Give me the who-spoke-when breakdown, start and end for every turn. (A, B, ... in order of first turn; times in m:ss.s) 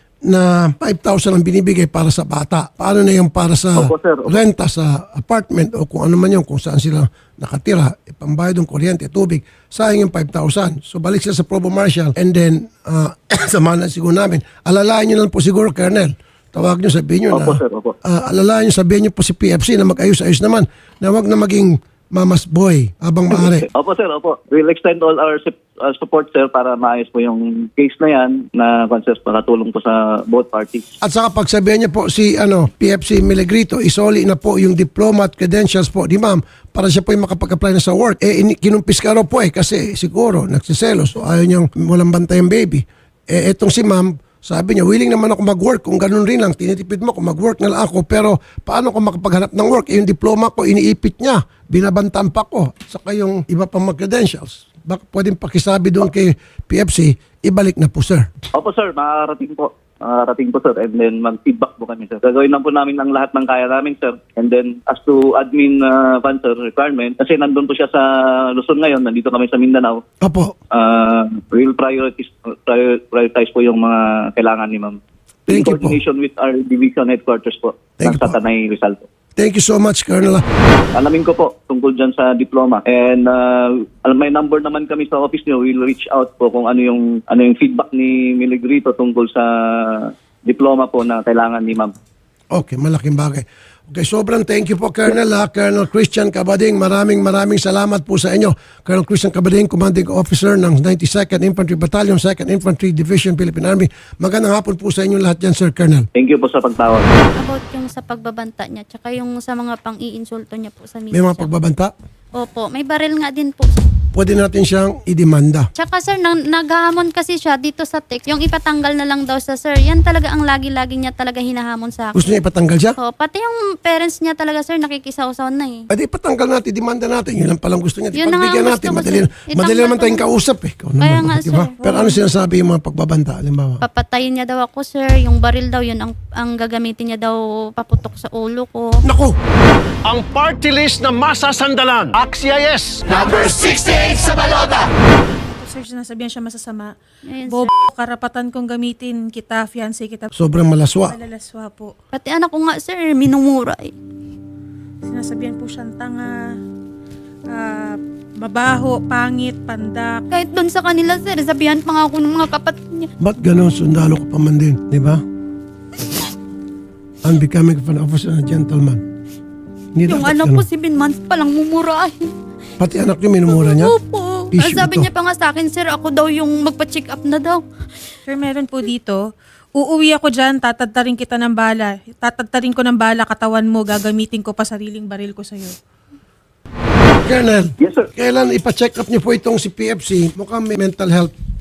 0:00.3-0:23.7 A
0:03.8-0:04.4 B
0:17.3-0:17.9 B
0:23.3-0:30.9 B
0:31.0-0:58.3 A
0:58.6-1:10.0 B
1:10.2-1:10.6 A
1:10.7-1:19.1 B
1:15.5-1:16.0 A
1:18.0-1:18.4 A
1:19.4-1:20.5 A
1:20.9-1:31.9 B
1:32.5-1:46.1 A
1:46.2-1:47.1 B
1:47.4-1:51.5 C
1:51.1-1:51.9 A
1:52.4-1:53.8 C
1:54.1-1:55.7 A
1:55.8-2:02.2 C
2:02.2-2:03.0 A
2:03.0-2:05.9 C
2:05.9-2:13.8 A
2:08.2-2:10.3 C
2:11.0-2:12.2 C
2:13.8-2:19.0 C
2:19.0-2:19.4 A
2:20.2-2:22.6 D
2:20.9-2:22.1 A
2:25.4-2:30.3 E
2:27.3-2:27.7 C
2:30.4-2:31.2 A
2:31.1-2:31.9 E
2:32.1-2:33.9 C
2:35.0-2:36.3 E
2:37.5-2:40.2 E
2:40.3-2:43.1 C
2:43.2-2:45.2 A
2:47.2-2:49.0 A
2:50.0-2:50.7 A
2:50.1-2:52.3 C
2:52.8-2:53.9 A
2:53.5-2:57.6 C
2:54.5-2:55.1 A
2:58.3-3:05.8 E
3:07.2-3:11.3 A
3:07.8-3:08.1 B